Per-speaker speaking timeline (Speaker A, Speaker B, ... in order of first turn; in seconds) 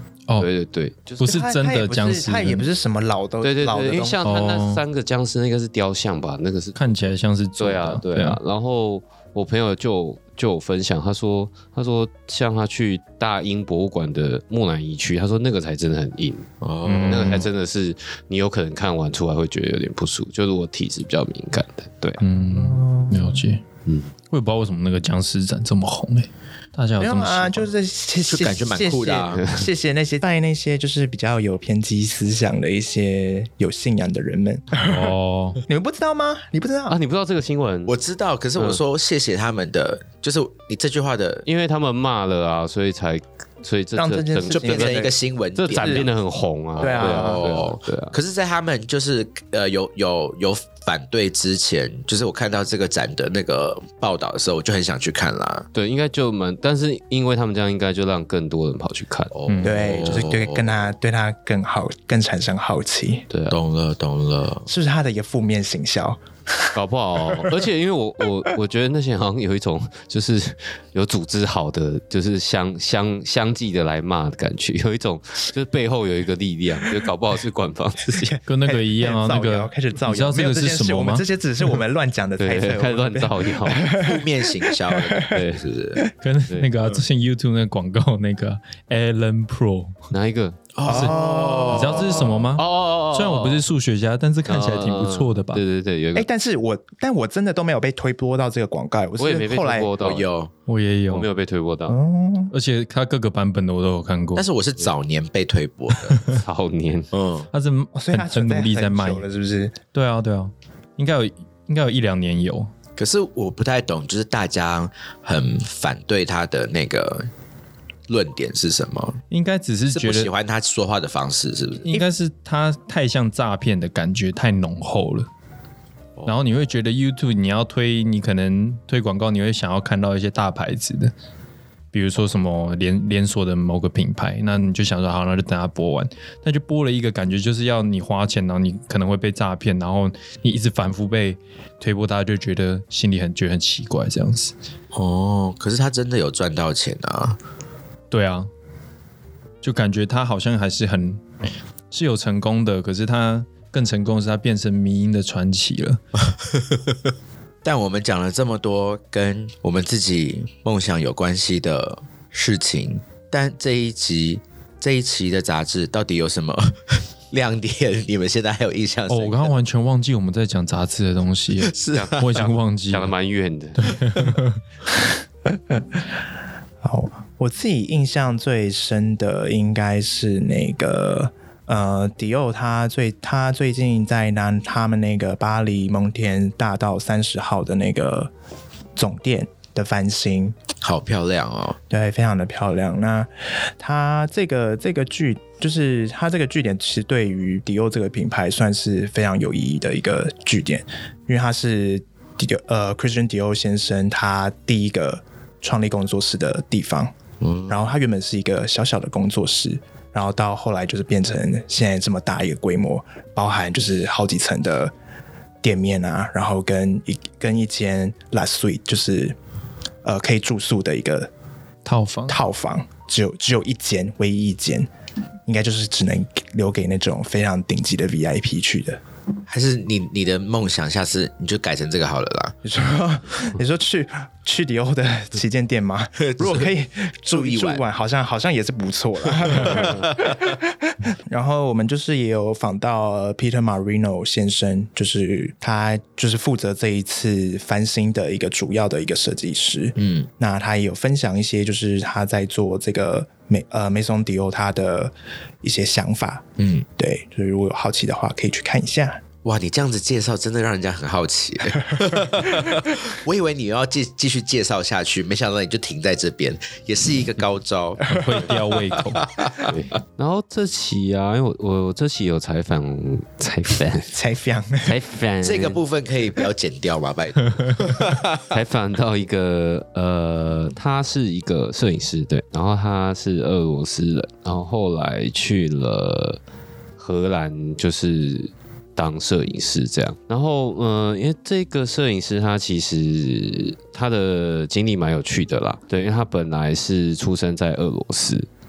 Speaker A: 0.4-1.4, 3.4-16.5, 17.1-22.2, 36.9-38.0, 38.5-38.8, 41.5-48.1, 55.7-59.3, 63.3-63.6, 66.7-78.3, 82.4-83.8, 85.3-85.7, 90.1-90.6, 92.5-93.6, 94.5-96.3, 99.2-100.3, 101.1-102.0, 106.3-107.1, 171.9-174.2, 269.6-274.1, 274.8-275.8, 278.5-286.4, 287.0-298.5
Speaker B: 1.2-2.6, 4.2-4.8, 6.7-8.4, 16.8-17.5, 22.2-23.6, 24.3-27.7, 34.8-35.6, 59.5-59.8, 78.5-81.2, 86.2-90.0, 90.9-91.2, 91.7-95.6, 100.7-101.3, 102.5-104.5, 106.1-106.4, 107.5-109.2, 109.9-112.7, 119.3-120.3, 121.8-125.3, 126.3-131.1, 131.9-144.5, 148.1-148.5, 149.6-151.2, 151.9-156.0, 169.1-173.1, 173.8-174.6, 221.8-222.4, 268.1-269.2
Speaker C: 1.2-4.2, 22.5-23.2, 27.0-35.1, 35.6-37.0, 44.0-45.1, 45.7-46.1, 46.8-47.5, 59.6-63.2, 64.7-66.7, 78.1-85.3, 90.8-92.1, 96.1-99.9, 101.9-102.5, 107.9-109.8, 176.8-188.3, 188.9-190.6, 191.9-207.1, 207.7-214.9, 215.6-219.3, 220.0-221.3, 222.3-224.9, 225.4-229.0, 232.6-256.4, 257.0-259.2, 268.0-268.4, 274.1-274.9
Speaker D: 16.6-17.4, 28.3-29.4, 37.9-41.4, 44.5-46.1, 46.8-55.7, 59.3-60.9, 63.5-64.7, 83.8-86.0, 90.7-92.5, 100.0-100.5, 104.3-106.3, 107.1-107.5, 113.0-117.3, 118.1-119.2, 119.9-122.0, 144.9-147.4, 156.3-157.0, 157.6-169.5, 171.6-172.2, 190.8-191.8, 207.4-207.8, 229.5-232.6, 236.2-236.7, 237.3-237.8, 239.6-240.1, 249.9-250.3, 256.6-256.9, 259.4-269.7, 275.4-278.4